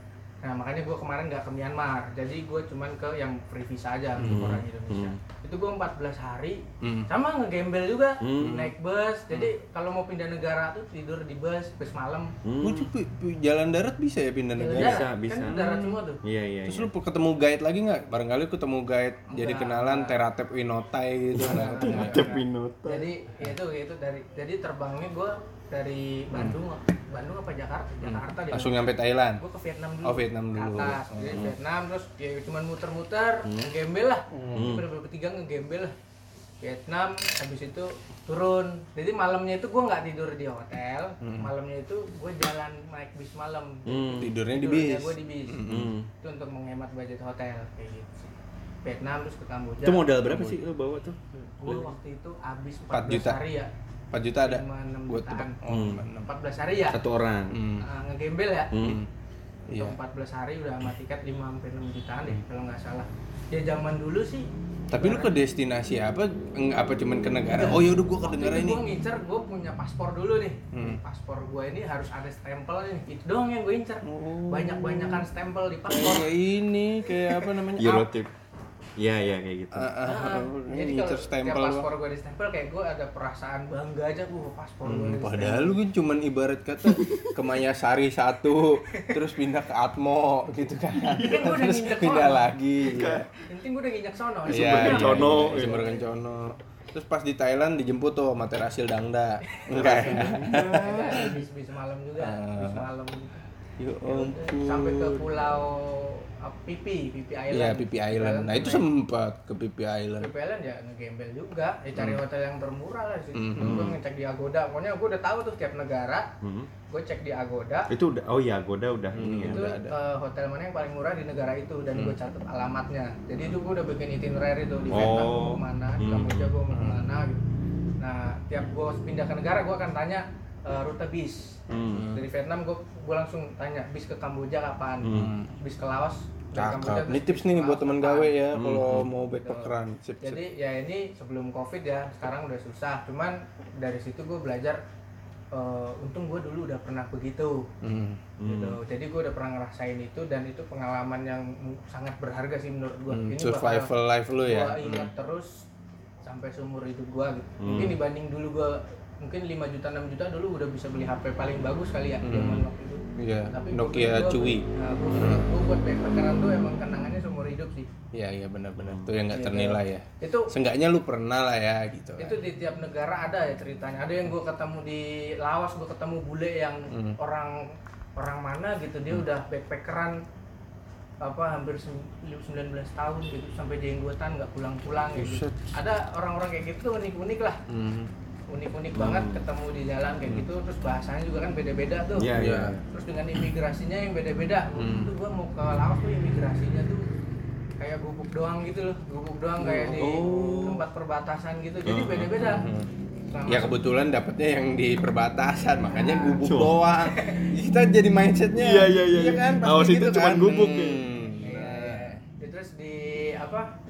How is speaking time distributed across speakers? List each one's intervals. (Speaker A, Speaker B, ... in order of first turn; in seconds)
Speaker A: 0.4-12.3, 14.6-16.2, 19.3-20.2, 21.4-28.8, 29.4-35.9, 36.6-45.6, 46.2-50.1, 51.4-53.7, 54.4-55.6, 56.2-57.0, 57.8-58.7, 59.7-65.3, 67.5-76.3, 80.0-85.8, 88.9-89.2, 91.2-92.5, 93.4-96.1, 99.5-103.4, 104.0-108.9, 110.2-116.3, 116.9-117.9, 119.4-127.4, 128.0-138.4, 139.3-144.8, 145.5-147.7, 148.4-153.9, 154.4-155.7, 156.2-167.9, 169.3-170.5, 172.2-180.2, 181.2-187.6, 188.5-192.3, 192.9-197.0, 197.8-202.7, 203.3-203.7, 205.9-206.4, 207.1-207.5, 211.4-213.7
Speaker B: 4.2-4.5, 6.8-7.1, 8.4-8.7, 12.6-16.0, 16.6-22.3, 28.0-29.4, 30.0-31.5, 34.3-34.7, 41.2-41.5, 44.2-45.9, 50.2-50.6, 52.9-53.4, 54.1-56.3, 57.5-57.8, 58.8-59.1, 59.7-60.0, 64.9-68.8, 70.7-71.0, 74.0-75.3, 75.9-78.1, 79.7-81.9, 84.8-93.3, 94.5-101.4, 102.2-102.9, 103.8-105.4, 107.5-110.3, 113.3-114.0, 119.2-119.9, 126.7-127.0, 131.9-132.3, 135.1-135.5, 136.5-140.4, 147.8-148.2, 153.1-155.1, 157.7-158.0, 162.2-162.7, 163.2-165.5, 168.1-172.4, 176.9-177.2, 185.1-185.6, 187.7-188.1, 192.3-192.8, 194.8-195.1, 199.6-200.2, 202.4-202.9, 203.5-212.2
Speaker C: 4.2-5.2, 8.2-8.7, 12.4-12.9, 14.7-15.6, 16.2-16.9, 21.3-23.1, 33.4-33.7, 34.5-34.9, 43.9-44.3, 45.6-46.1, 49.8-51.8, 55.6-56.0, 56.9-57.6, 58.7-59.0, 77.8-78.3, 79.0-79.9, 86.9-87.4, 91.1-91.5, 92.8-93.3, 94.5-95.9, 99.7-101.3, 113.6-113.9, 116.4-116.7, 117.9-119.7, 124.9-126.5, 131.7-132.1, 135.0-135.3, 138.5-139.1, 148.4-148.8, 157.6-158.0, 168.8-169.1, 188.9-189.4, 192.2-192.8, 199.9-200.9, 201.8-202.3, 206.4-206.8, 208.6-211.0